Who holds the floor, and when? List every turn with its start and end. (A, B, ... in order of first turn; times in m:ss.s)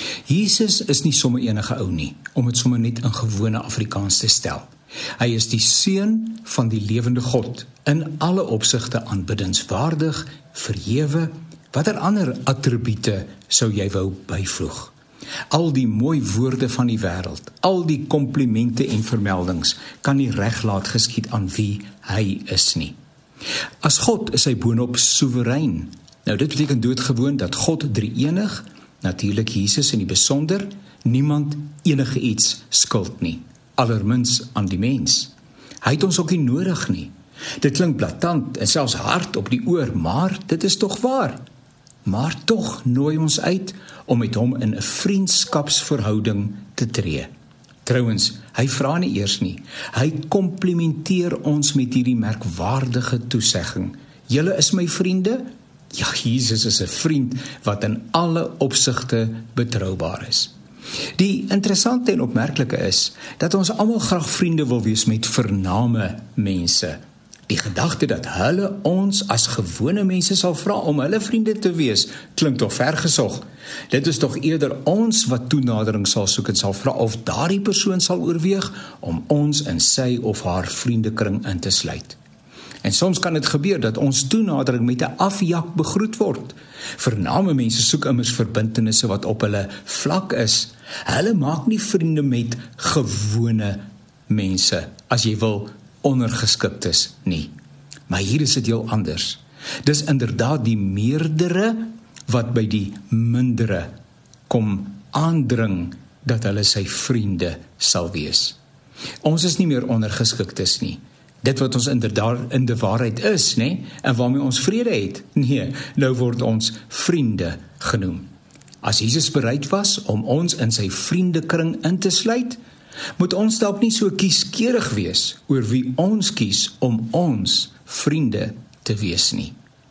0:00.3-0:14.9 A
0:15.5-0:22.9 A
0:23.8-0:35.3 A
0:35.8-0:41.4 A
0:42.0-0:47.3 A
0:47.8-1:00.5 A
1:01.2-1:22.2 A
1:22.8-1:37.5 A
1:38.1-1:43.9 A
1:44.5-1:48.6 A
1:49.2-1:58.3 A
1:58.8-2:02.6 A
2:03.2-2:09.5 A